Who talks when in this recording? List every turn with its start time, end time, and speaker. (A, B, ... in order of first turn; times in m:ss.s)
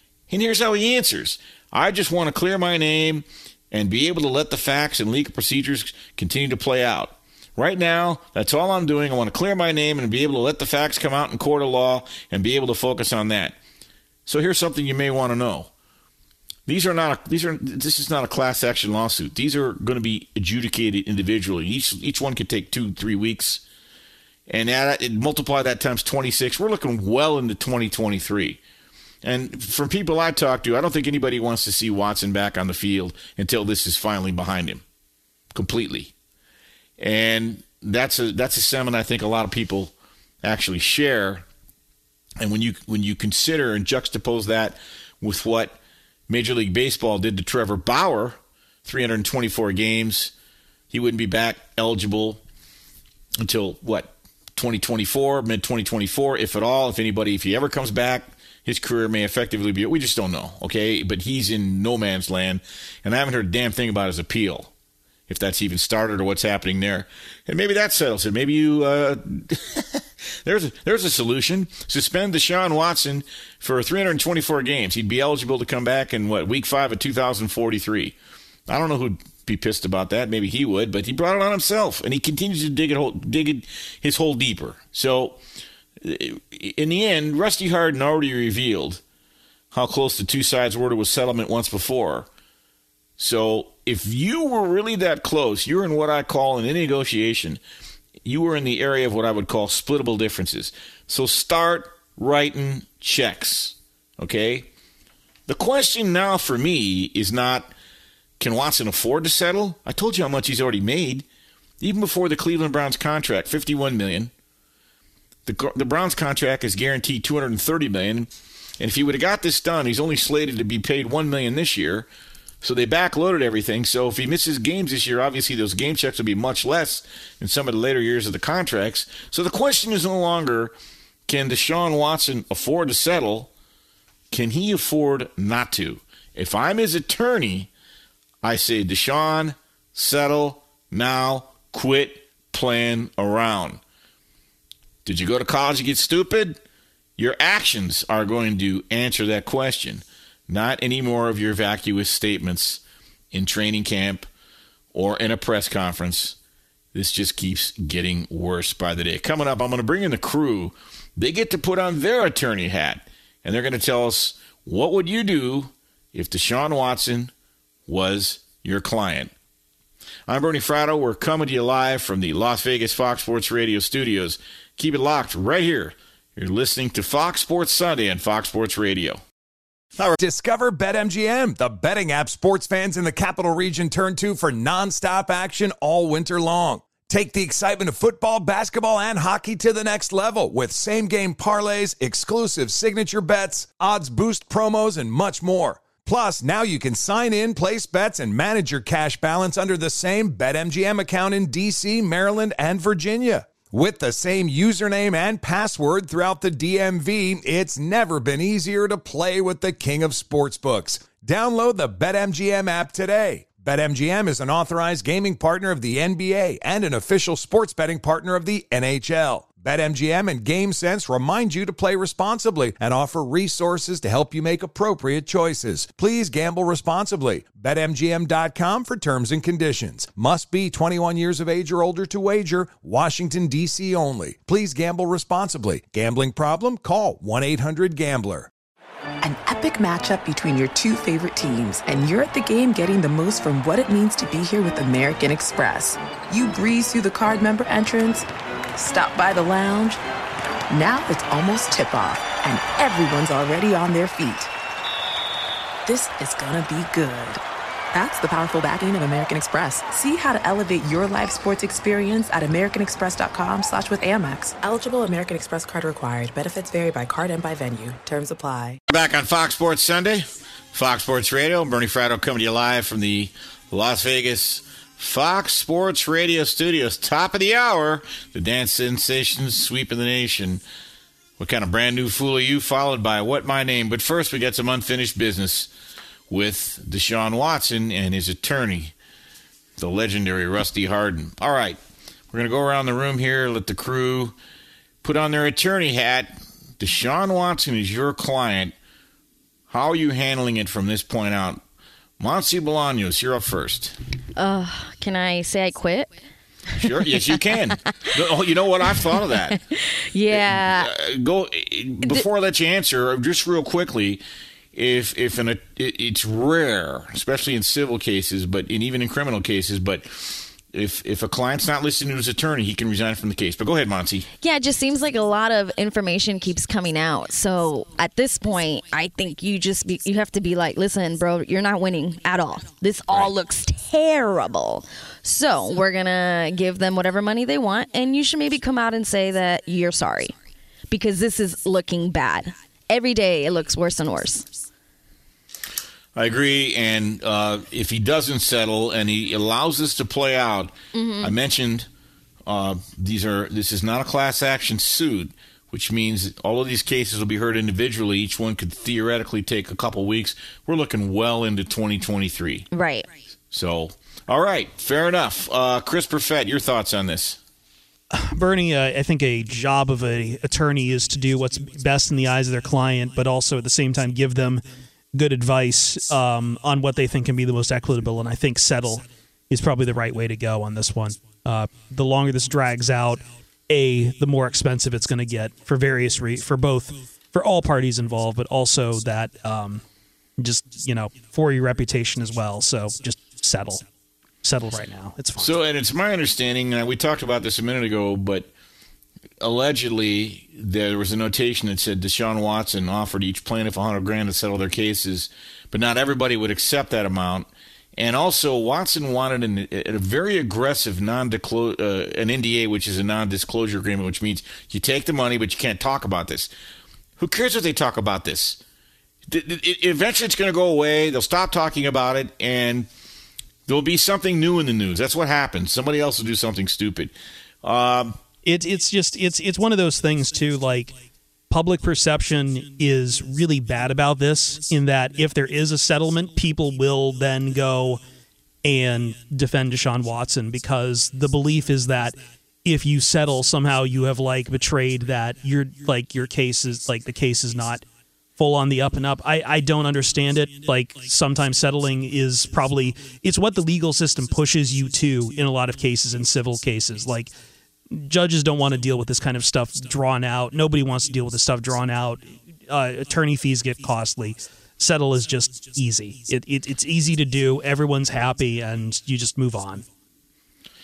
0:00.3-0:13.6 A
0:14.2-0:15.7 A
0:16.7-0:23.6 A
0:24.5-0:28.6 A
0:29.2-0:34.8 A
0:35.5-0:36.1 A
0:37.0-0:41.4 A
0:42.4-0:45.8 A
0:46.3-0:50.3 A
0:50.9-0:52.4 A
0:53.4-1:04.7 A
1:05.3-1:18.1 A
1:18.7-1:25.4 A
1:26.0-1:29.0 A
1:29.7-1:32.3 A
1:33.2-1:37.6 A
1:38.2-1:44.7 A
1:45.5-1:47.7 A
1:48.4-1:51.2 A
1:51.8-1:54.3 A
1:55.4-2:02.1 A
2:02.6-2:10.7 A
2:11.3-2:13.5 A
2:14.3-2:17.7 A
2:18.4-2:23.8 A
2:25.0-2:26.6 A
2:27.2-2:34.3 A
2:34.9-2:36.4 A
2:36.9-2:47.3 A
2:47.9-2:49.3 A
2:50.3-2:59.2 A
3:00.1-3:58.5 B
3:59.2-4:10.0 C
4:10.7-4:14.5 C
4:15.8-4:17.4 C
4:17.9-4:28.8 C
4:28.9-4:40.6 A
4:41.4-4:45.7 A
4:46.3-4:48.9 A
4:49.8-4:51.8 A
4:52.3-4:54.4 A
4:55.0-4:58.7 A
4:59.7-5:01.6 A
5:02.2-5:04.0 A
5:04.4-5:06.1 D
5:06.8-5:09.6 A
5:09.7-5:10.9 D
5:10.3-5:14.2 A
5:14.7-5:24.3 A
5:24.4-5:40.3 D
5:40.9-5:44.5 D
5:46.2-5:51.9 A
5:50.9-5:51.3 D
5:52.5-6:02.7 A
6:02.7-6:03.1 D
6:03.5-6:07.4 A
6:08.1-6:29.8 E
6:30.4-6:33.8 E
6:34.4-6:35.6 E
6:35.4-6:38.5 A
6:39.4-6:56.5 A
6:57.2-6:58.6 A
6:59.3-7:02.9 A
7:03.7-7:07.1 A
7:07.6-7:08.2 A
7:08.4-7:11.0 E
7:11.5-7:18.0 E
7:18.6-7:27.8 E
7:28.4-7:37.3 E
7:37.9-7:49.8 E